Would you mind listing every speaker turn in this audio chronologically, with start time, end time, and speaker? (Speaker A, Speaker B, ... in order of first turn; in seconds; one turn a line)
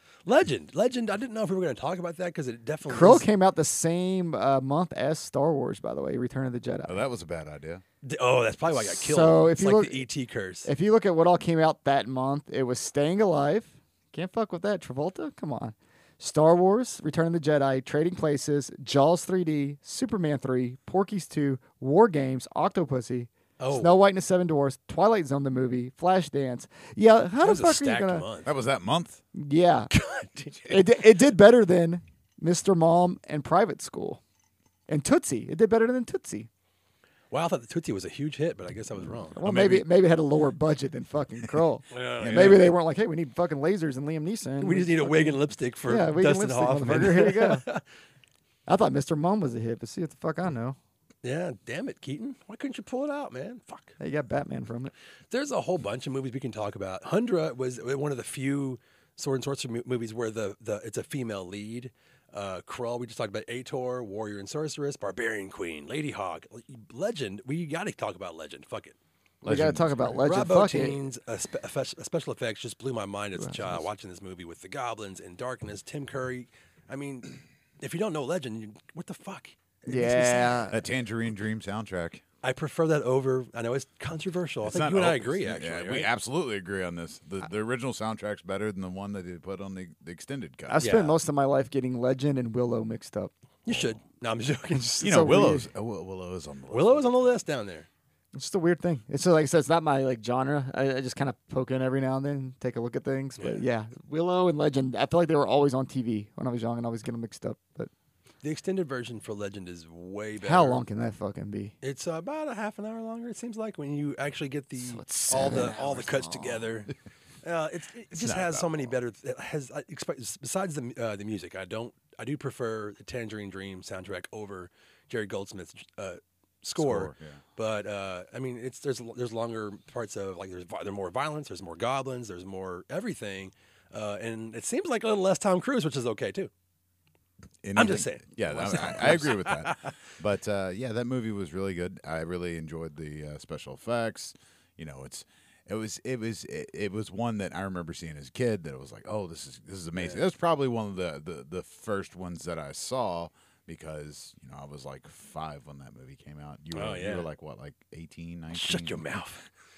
Speaker A: 0.3-3.3
Speaker B: 2.9-7.0
Speaker C: 6.9-7.8
Speaker A: 8.0-10.7
Speaker B: 8.8-10.1
Speaker B: 10.7-28.3
Speaker A: 23.6-23.9
Speaker A: 27.4-28.5
Speaker C: 28.4-29.2
Speaker B: 29.3-29.9
Speaker A: 29.9-30.8
Speaker B: 30.7-34.2
Speaker B: 34.9-36.5
Speaker A: 37.3-39.4
Speaker B: 39.4-47.6
Speaker C: 39.4-39.8
Speaker A: 41.9-42.7
Speaker C: 42.2-42.7
Speaker A: 44.6-47.8
Speaker B: 48.7-50.8
Speaker A: 51.2-54.0
Speaker B: 54.0-54.9
Speaker A: 55.3-69.0
Speaker C: 69.4-70.2
Speaker B: 69.4-71.0
Speaker A: 70.2-80.7
Speaker B: 73.4-73.8
Speaker B: 79.9-80.8
Speaker C: 80.7-82.2
Speaker A: 82.4-86.1
Speaker C: 84.6-90.9
Speaker B: 90.7-93.3
Speaker A: 90.8-91.2
Speaker A: 93.7-95.1
Speaker B: 94.7-95.7
Speaker C: 95.0-97.3
Speaker A: 96.7-97.9
Speaker B: 98.3-107.9
Speaker A: 103.4-103.7
Speaker A: 108.4-110.8
Speaker B: 110.4-111.7
Speaker A: 111.8-136.5
Speaker B: 114.8-116.7
Speaker C: 115.3-115.8
Speaker C: 118.1-118.9
Speaker C: 126.8-127.4
Speaker C: 137.6-159.1
Speaker A: 137.8-140.0
Speaker A: 149.9-150.2
Speaker A: 156.7-157.3
Speaker A: 158.5-159.4